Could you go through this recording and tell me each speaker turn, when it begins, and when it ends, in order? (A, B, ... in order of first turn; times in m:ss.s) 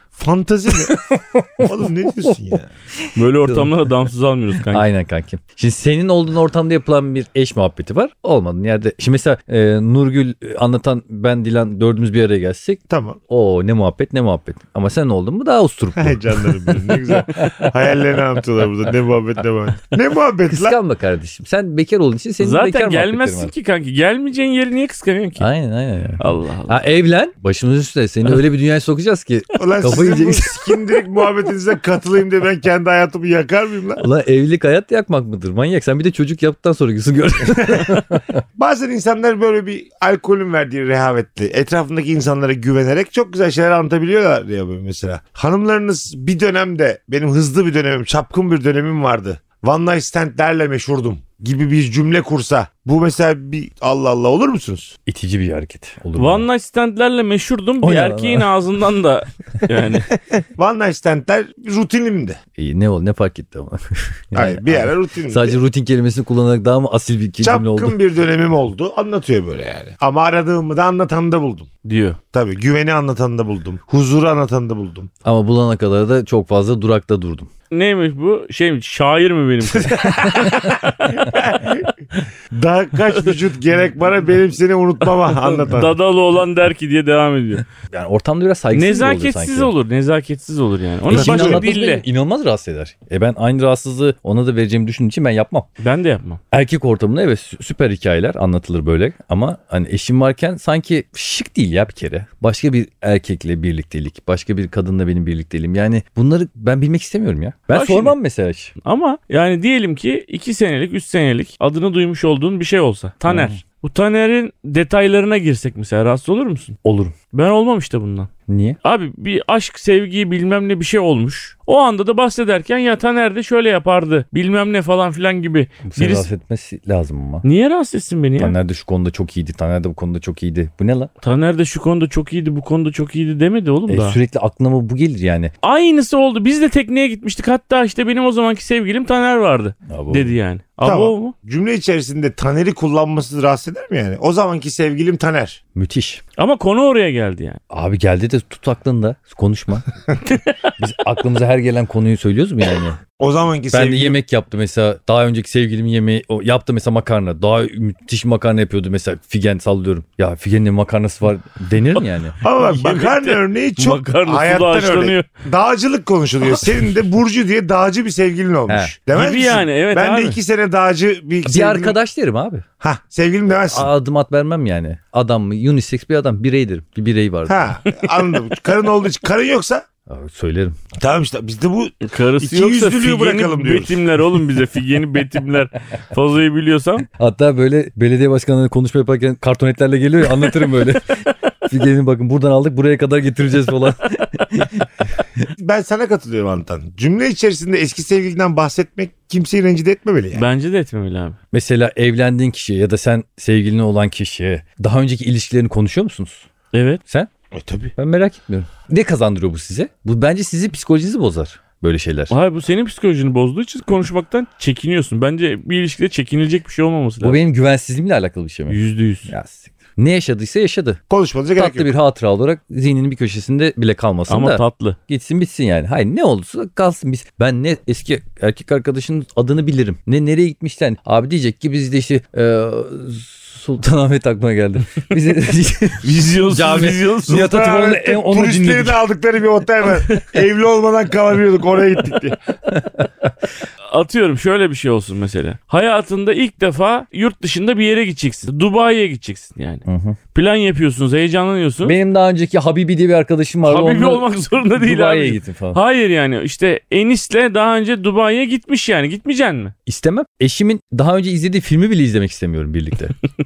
0:00.2-0:01.0 A
0:00.8-0:01.6 B
0:01.6-0:02.7 A
0:03.0-0:03.7 B
0:03.2-0:04.9 C
0:04.7-0:17.4 B
0:12.9-0:13.2 A
0:16.0-0:20.8 A
0:20.5-0:23.5 B
0:22.4-0:25.5 C
0:25.4-0:31.0 B
0:26.2-0:26.8 C
0:29.6-0:34.0 A
0:34.0-0:38.2 B
0:37.5-0:38.0 A
0:38.6-0:55.0 A
0:55.1-0:56.4 B
0:56.2-1:00.1 C
0:57.8-0:58.5 B
1:00.6-1:02.4 A
1:02.6-1:08.0 B
1:04.3-1:05.6 A
1:07.4-1:11.7 A
1:11.8-1:12.2 C
1:12.3-1:15.1 A
1:15.2-1:17.5 B
1:17.7-1:20.6 C
1:19.6-1:21.9 A
1:20.4-1:20.7 B
1:22.5-1:26.0 A
1:25.3-1:27.6 C
1:27.9-1:29.7 B
1:28.7-1:32.0 C
1:31.1-1:31.7 A
1:31.1-1:35.7 B
1:35.8-1:36.4 C
1:36.5-1:48.7 B
1:47.7-1:48.2 C
1:48.8-1:56.8 C
1:53.3-1:53.6 B
1:56.8-1:57.2 B
1:57.3-1:58.3 C
1:58.5-1:58.8 B
1:58.8-2:06.3 C
2:05.9-2:07.4 B
2:07.4-2:08.6 C
2:08.4-2:11.1 B
2:11.2-2:14.2 C
2:13.9-2:15.5 B
2:15.6-2:21.3 C
2:19.9-2:20.3 B
2:20.8-2:25.6 A
2:25.8-2:26.2 B
2:26.4-2:27.6 C
2:27.7-2:29.9 B
2:30.3-2:30.5 C
2:30.8-2:33.0 B
2:33.2-2:34.2 A
2:33.7-2:42.4 B
2:42.0-2:45.3 C
2:42.4-2:52.0 A
2:48.7-2:49.0 B
2:49.1-2:50.4 C
2:51.5-2:52.6 B
2:52.8-2:53.9 A
2:53.7-2:57.7 B
2:57.5-2:59.8 A
2:57.9-2:58.3 C
3:00.1-3:00.8 B
3:01.0-3:04.0 A
3:02.0-3:07.1 C
3:07.2-3:11.1 B
3:11.7-3:15.5 B
3:15.6-3:20.5 A
3:20.3-3:21.4 C
3:21.5-3:26.4 B
3:26.7-3:27.0 C
3:27.5-3:27.9 A
3:28.0-3:32.3 B
3:32.3-3:37.4 C
3:37.2-3:41.0 B
3:38.7-3:39.3 C
3:41.1-3:41.9 A
3:41.6-3:59.0 B
3:44.3-3:45.0 C
3:56.0-3:57.5 C
3:57.3-4:02.4 A
4:02.7-4:03.1 B
4:03.9-4:12.0 C
4:09.8-4:10.2 B
4:11.8-4:14.2 B
4:13.7-4:19.7 C
4:14.8-4:15.8 B
4:19.9-4:23.1 B